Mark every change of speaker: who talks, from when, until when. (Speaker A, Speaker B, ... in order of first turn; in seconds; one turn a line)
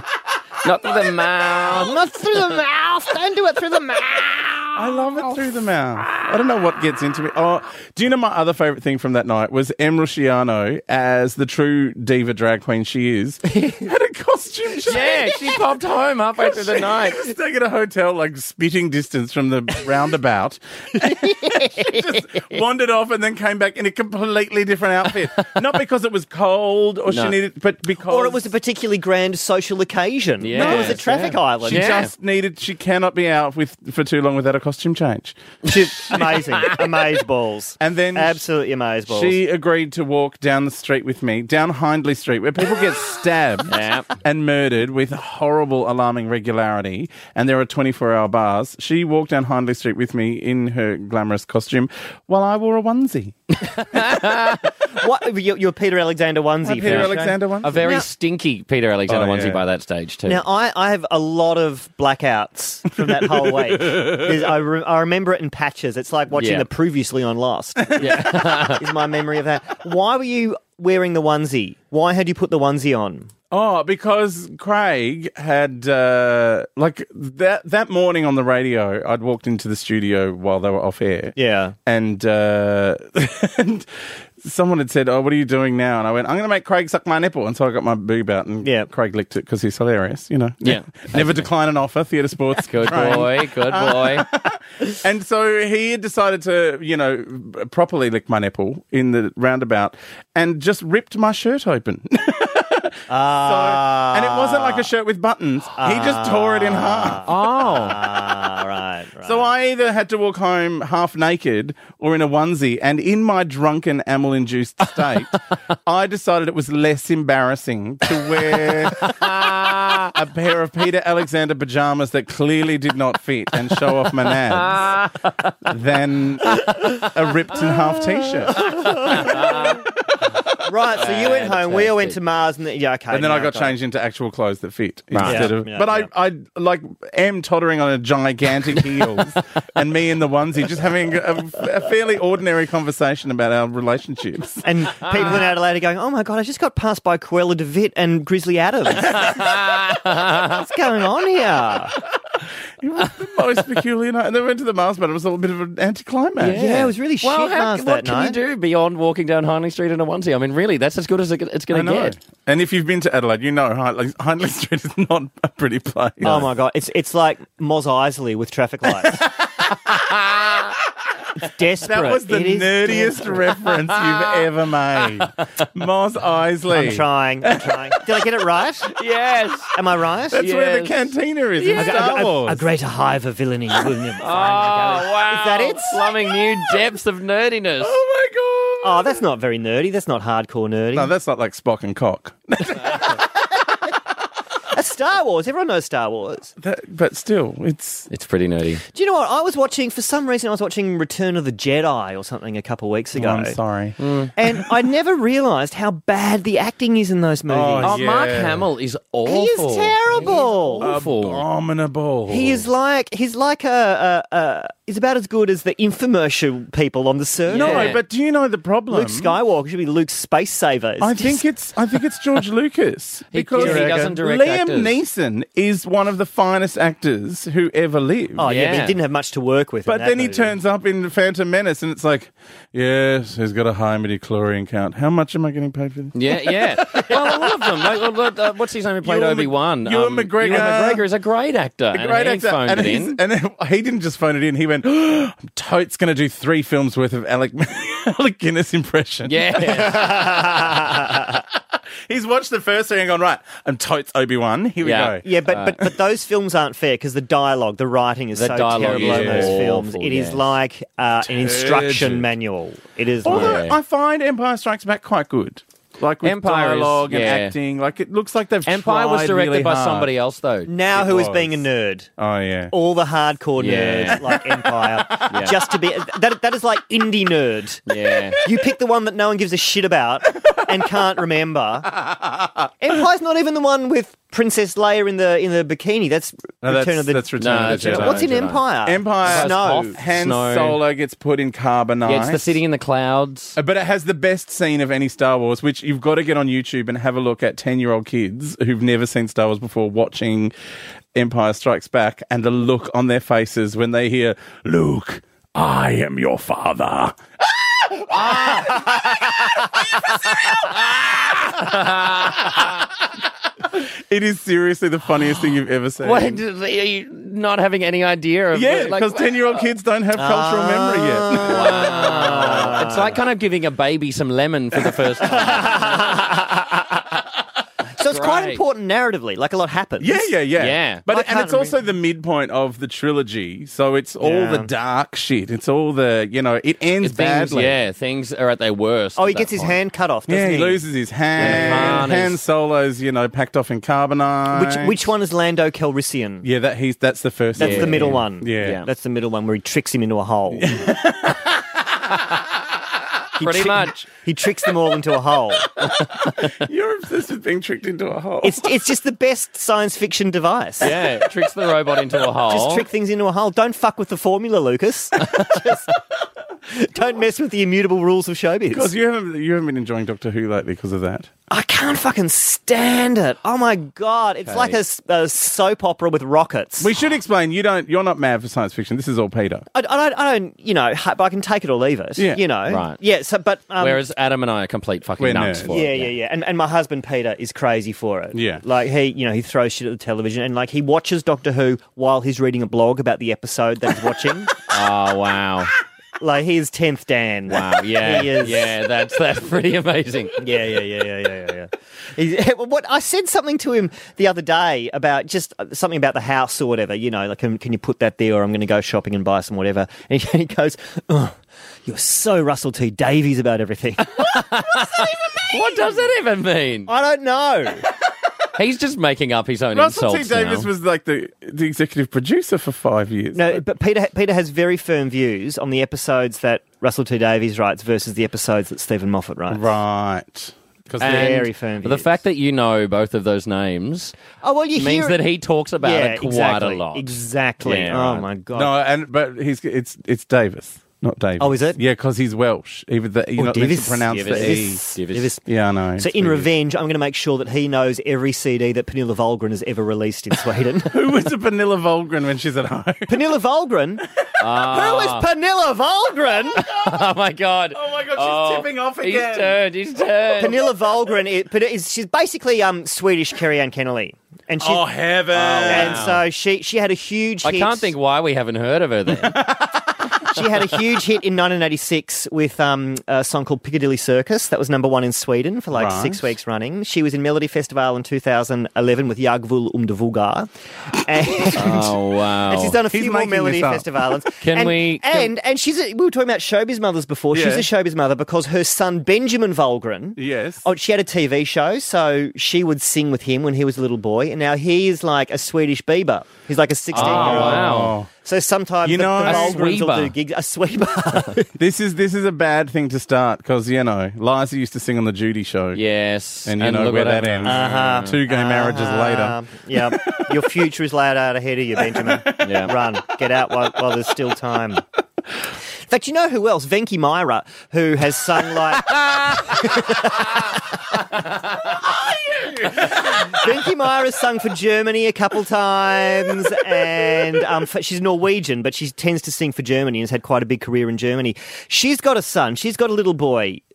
Speaker A: 0.6-2.0
Speaker B: 1.7-5.2
Speaker C: 4.7-15.6
Speaker A: 14.8-17.3
Speaker C: 16.4-28.5
Speaker B: 21.0-22.1
Speaker A: 27.1-27.4
Speaker B: 28.0-32.0
Speaker A: 30.4-32.1
Speaker C: 30.5-31.1
Speaker C: 31.6-36.2
Speaker B: 35.6-39.4
Speaker A: 36.1-36.8
Speaker C: 37.8-38.4
Speaker C: 39.1-53.4
Speaker A: 43.7-44.1
Speaker A: 53.8-54.6
Speaker B: 54.9-58.0
Speaker C: 56.6-57.8
Speaker A: 56.8-60.4
Speaker C: 59.1-59.6
Speaker B: 60.2-73.3
Speaker C: 63.1-64.4
Speaker A: 66.3-66.7
Speaker C: 67.9-68.2
Speaker A: 68.0-68.8
Speaker C: 73.5-107.3
Speaker B: 81.3-81.8
Speaker B: 88.6-88.9
Speaker A: 90.6-91.5
Speaker A: 92.5-94.2
Speaker B: 103.1-104.9
Speaker B: 105.8-109.5
Speaker A: 107.2-108.0
Speaker C: 109.2-125.0
Speaker A: 119.0-120.1
Speaker A: 124.6-125.5
Speaker C: 125.6-129.3
Speaker B: 128.5-129.8
Speaker A: 129.0-129.8
Speaker B: 130.6-133.8
Speaker A: 130.9-132.2
Speaker C: 133.1-144.6
Speaker A: 135.1-135.5
Speaker B: 135.2-136.1
Speaker B: 144.6-149.6
Speaker A: 149.1-150.6
Speaker B: 150.3-151.9
Speaker C: 152.2-156.6
Speaker A: 156.4-162.2
Speaker B: 156.5-158.4
Speaker C: 161.7-166.5
Speaker B: 166.2-169.2
Speaker C: 169.0-170.3
Speaker B: 171.4-173.4
Speaker C: 171.8-177.9
Speaker A: 173.9-174.2
Speaker B: 176.7-178.9
Speaker A: 178.9-179.7
Speaker B: 179.7-180.4
Speaker C: 180.3-182.6
Speaker A: 180.3-182.2
Speaker B: 181.8-186.1
Speaker A: 184.2-188.0
Speaker C: 187.8-189.2
Speaker B: 188.8-191.1
Speaker C: 190.9-193.2
Speaker B: 194.7-196.5
Speaker C: 196.6-198.1
Speaker A: 198.1-198.8
Speaker B: 198.9-203.6
Speaker C: 203.1-204.7
Speaker A: 204.0-204.3
Speaker B: 204.3-208.0
Speaker C: 207.5-208.7
Speaker A: 207.8-211.4
Speaker B: 209.2-210.9
Speaker C: 210.8-212.7
Speaker B: 212.3-218.0
Speaker A: 217.5-218.0
Speaker C: 217.5-219.3
Speaker B: 218.9-221.4
Speaker C: 221.0-228.5
Speaker A: 223.3-224.9
Speaker B: 223.6-224.1
Speaker B: 228.4-230.5
Speaker A: 228.4-228.9
Speaker C: 229.8-236.2
Speaker A: 236.1-243.2
Speaker B: 236.9-237.2
Speaker C: 239.0-241.0
Speaker C: 241.9-250.3
Speaker A: 249.2-250.2
Speaker B: 249.6-251.4
Speaker C: 252.1-255.2
Speaker A: 254.8-255.8
Speaker B: 255.2-263.6
Speaker A: 258.3-260.5
Speaker C: 258.8-259.6
Speaker C: 261.4-262.3
Speaker C: 263.2-270.1
Speaker A: 263.2-263.8
Speaker A: 266.2-267.5
Speaker A: 268.6-270.7
Speaker B: 270.7-272.1
Speaker C: 270.9-271.6
Speaker C: 272.2-272.7
Speaker B: 272.7-277.8
Speaker A: 273.6-274.3
Speaker A: 275.2-275.6
Speaker A: 277.9-278.4
Speaker B: 278.4-281.9
Speaker C: 281.9-282.7
Speaker B: 282.8-289.9
Speaker C: 286.6-288.3
Speaker A: 287.4-288.6
Speaker C: 288.8-292.6
Speaker A: 289.2-290.8
Speaker A: 292.0-293.6
Speaker C: 293.6-300.5
Speaker C: 301.1-311.5
Speaker A: 308.1-309.0
Speaker A: 310.7-312.6
Speaker C: 312.3-312.8
Speaker C: 313.7-316.4
Speaker A: 316.0-319.6
Speaker C: 318.5-322.1
Speaker B: 320.1-323.2
Speaker A: 321.4-326.2
Speaker B: 325.2-327.0
Speaker B: 327.9-330.3
Speaker A: 328.0-328.6
Speaker C: 330.0-337.8
Speaker A: 330.6-331.0
Speaker B: 331.1-331.8
Speaker B: 334.2-334.7
Speaker A: 337.0-339.8
Speaker B: 339.1-340.8
Speaker C: 340.3-345.1
Speaker A: 341.4-342.4
Speaker B: 341.4-342.1
Speaker B: 344.5-346.5
Speaker C: 346.4-348.8
Speaker A: 347.6-348.9
Speaker B: 347.6-350.8
Speaker C: 350.5-352.4
Speaker B: 353.4-355.8
Speaker A: 353.4-354.0
Speaker A: 355.8-356.5
Speaker C: 356.4-358.7
Speaker B: 358.4-360.9
Speaker A: 360.8-362.9
Speaker B: 362.5-366.0
Speaker B: 366.7-368.9
Speaker C: 368.7-371.3
Speaker B: 371.5-376.9
Speaker A: 374.4-374.8
Speaker C: 376.8-379.6
Speaker B: 379.7-384.0
Speaker A: 382.7-383.0
Speaker A: 383.8-386.1
Speaker C: 385.2-385.7
Speaker B: 385.6-394.6
Speaker C: 388.3-388.6
Speaker A: 394.7-395.7
Speaker B: 396.2-398.7
Speaker A: 397.5-400.4
Speaker B: 400.4-416.0
Speaker A: 414.1-416.9
Speaker B: 416.9-417.9
Speaker A: 418.5-420.7
Speaker C: 419.7-423.6
Speaker B: 423.3-429.7
Speaker C: 429.5-431.4
Speaker A: 431.0-434.1
Speaker B: 431.0-432.1
Speaker B: 434.4-435.2
Speaker A: 434.8-438.2
Speaker B: 435.8-438.7
Speaker C: 438.5-444.8
Speaker B: 441.4-441.8
Speaker B: 443.4-445.4
Speaker A: 444.1-445.3
Speaker C: 445.4-446.5
Speaker B: 446.0-451.0
Speaker C: 450.9-453.3
Speaker B: 453.1-454.0
Speaker A: 454.4-455.2
Speaker B: 454.6-456.6
Speaker A: 456.6-460.6
Speaker C: 456.6-457.1
Speaker C: 457.7-459.6
Speaker C: 460.2-460.5
Speaker B: 460.4-464.9
Speaker C: 464.6-466.1
Speaker A: 465.3-466.2
Speaker B: 465.6-467.9
Speaker A: 467.4-469.4
Speaker C: 469.1-470.2
Speaker B: 470.2-501.5
Speaker C: 475.7-476.2
Speaker A: 481.5-482.8
Speaker C: 482.9-483.9
Speaker A: 484.4-485.3
Speaker C: 487.3-487.7
Speaker C: 490.2-490.6
Speaker A: 496.9-498.0
Speaker C: 496.9-498.1
Speaker C: 498.8-499.6
Speaker A: 499.2-500.1
Speaker C: 501.5-505.8
Speaker A: 505.7-508.1
Speaker C: 506.4-510.4
Speaker B: 507.4-514.8
Speaker C: 511.8-512.7
Speaker A: 512.4-512.7
Speaker B: 515.9-520.6
Speaker C: 521.6-523.5
Speaker B: 522.7-533.6